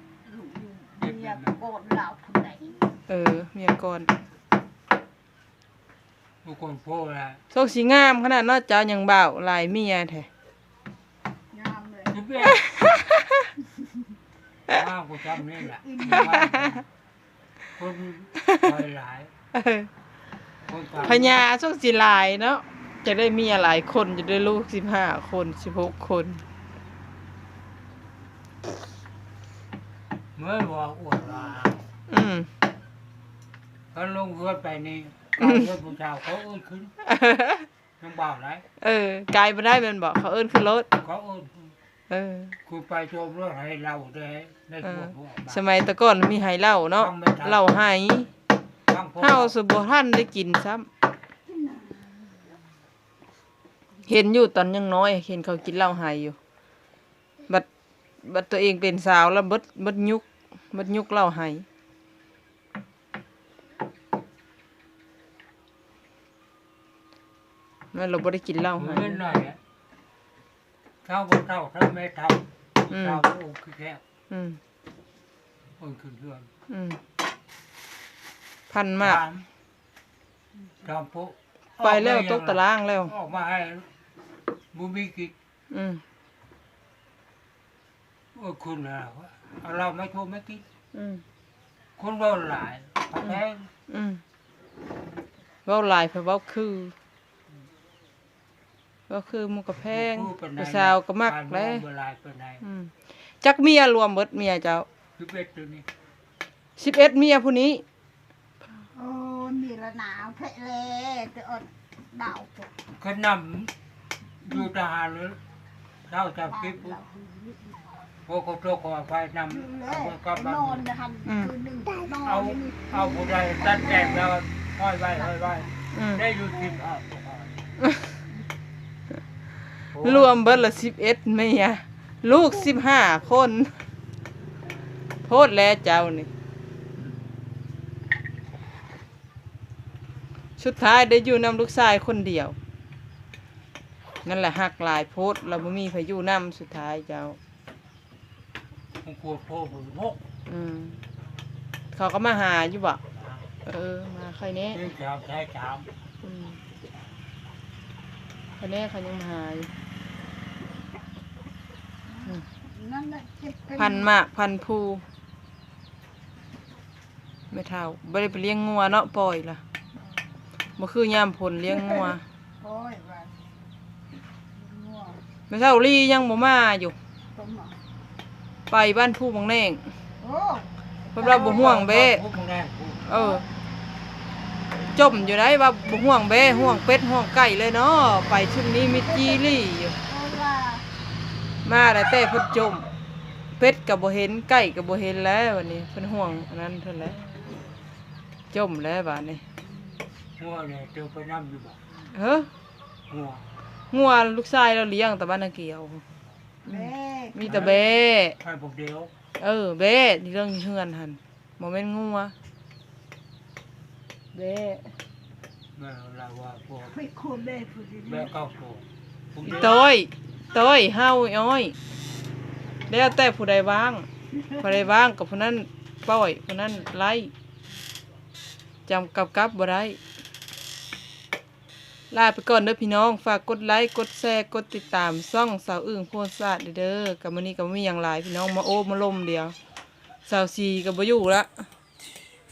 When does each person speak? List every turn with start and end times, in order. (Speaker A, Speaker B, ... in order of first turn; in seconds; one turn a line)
Speaker A: 0.2-2.9
Speaker B: 1.0-1.5
Speaker C: 3.1-4.1
Speaker B: 6.4-7.4
Speaker C: 7.5-10.3
Speaker A: 11.5-12.3
Speaker B: 12.1-12.7
Speaker C: 12.4-13.5
Speaker B: 14.7-16.8
Speaker A: 15.6-16.6
Speaker C: 16.2-16.7
Speaker B: 17.8-19.3
Speaker C: 18.4-18.7
Speaker C: 19.5-19.9
Speaker B: 20.7-21.4
Speaker C: 21.0-26.4
Speaker B: 30.4-31.9
Speaker C: 32.1-32.5
Speaker B: 33.9-36.9
Speaker C: 37.0-37.7
Speaker B: 38.0-38.6
Speaker C: 38.8-40.9
Speaker B: 40.9-41.7
Speaker C: 42.1-42.6
Speaker B: 42.6-45.6
Speaker C: 44.8-48.3
Speaker B: 46.9-47.6
Speaker B: 48.9-49.6
Speaker C: 49.2-50.9
Speaker A: 51.5-52.4
Speaker C: 54.0-56.4
Speaker C: 58.2-61.6
Speaker C: 67.9-69.2
Speaker B: 68.8-69.6
Speaker B: 71.0-74.0
Speaker C: 72.9-73.2
Speaker C: 74.3-74.6
Speaker B: 75.8-76.5
Speaker C: 76.7-77.0
Speaker C: 78.7-79.2
Speaker B: 79.0-79.5
Speaker B: 80.8-83.9
Speaker C: 81.8-83.1
Speaker B: 84.7-85.3
Speaker C: 85.7-86.0
Speaker B: 88.3-90.6
Speaker C: 90.9-91.2
Speaker B: 92.0-93.7
Speaker C: 93.9-94.2
Speaker C: 95.7-96.9
Speaker C: 99.1-101.8
Speaker B: 99.9-102.6
Speaker C: 102.6-104.8
Speaker B: 105.2-105.8
Speaker C: 106.8-107.8
Speaker A: 108.9-112.7
Speaker B: 112.9-113.7
Speaker B: 114.4-115.4
Speaker B: 116.1-117.0
Speaker A: 116.5-117.8
Speaker B: 118.2-120.8
Speaker A: 119.5-124.3
Speaker C: 121.2-121.5
Speaker B: 122.2-127.6
Speaker A: 125.0-125.7
Speaker C: 125.9-126.2
Speaker B: 129.9-130.4
Speaker C: 130.0-133.7
Speaker C: 135.2-136.3
Speaker C: 140.6-142.6
Speaker C: 144.2-147.4
Speaker B: 149.0-150.2
Speaker C: 150.4-151.0
Speaker C: 151.9-153.0
Speaker B: 153.1-153.4
Speaker C: 153.6-154.8
Speaker B: 154.7-155.9
Speaker C: 156.2-156.6
Speaker C: 158.6-159.7
Speaker A: 162.1-164.1
Speaker C: 163.8-165.0
Speaker C: 167.5-169.6
Speaker C: 170.8-172.2
Speaker A: 171.7-173.4
Speaker A: 174.5-175.2
Speaker C: 175.5-176.9
Speaker A: 177.3-177.8
Speaker C: 178.7-179.8
Speaker A: 180.2-180.7
Speaker C: 181.1-182.2
Speaker B: 181.2-183.2
Speaker C: 183.1-183.4
Speaker A: 183.1-183.4
Speaker C: 184.9-190.0
Speaker A: 186.3-186.8
Speaker A: 188.9-190.9
Speaker C: 191.6-192.8
Speaker C: 193.6-197.2
Speaker C: 198.5-199.4
Speaker B: 200.4-201.8
Speaker C: 202.1-202.5
Speaker B: 203.1-203.4
Speaker C: 203.9-206.0
Speaker A: 206.6-207.6
Speaker C: 206.7-208.3
Speaker B: 207.5-209.1
Speaker C: 209.4-212.3
Speaker C: 214.3-214.9
Speaker B: 215.8-216.9
Speaker A: 216.8-218.3
Speaker B: 218.1-219.8
Speaker C: 219.4-221.8
Speaker C: 222.9-224.1
Speaker A: 224.3-224.9
Speaker C: 224.6-227.3
Speaker C: 228.9-230.0
Speaker C: 232.1-239.6
Speaker C: 240.2-241.7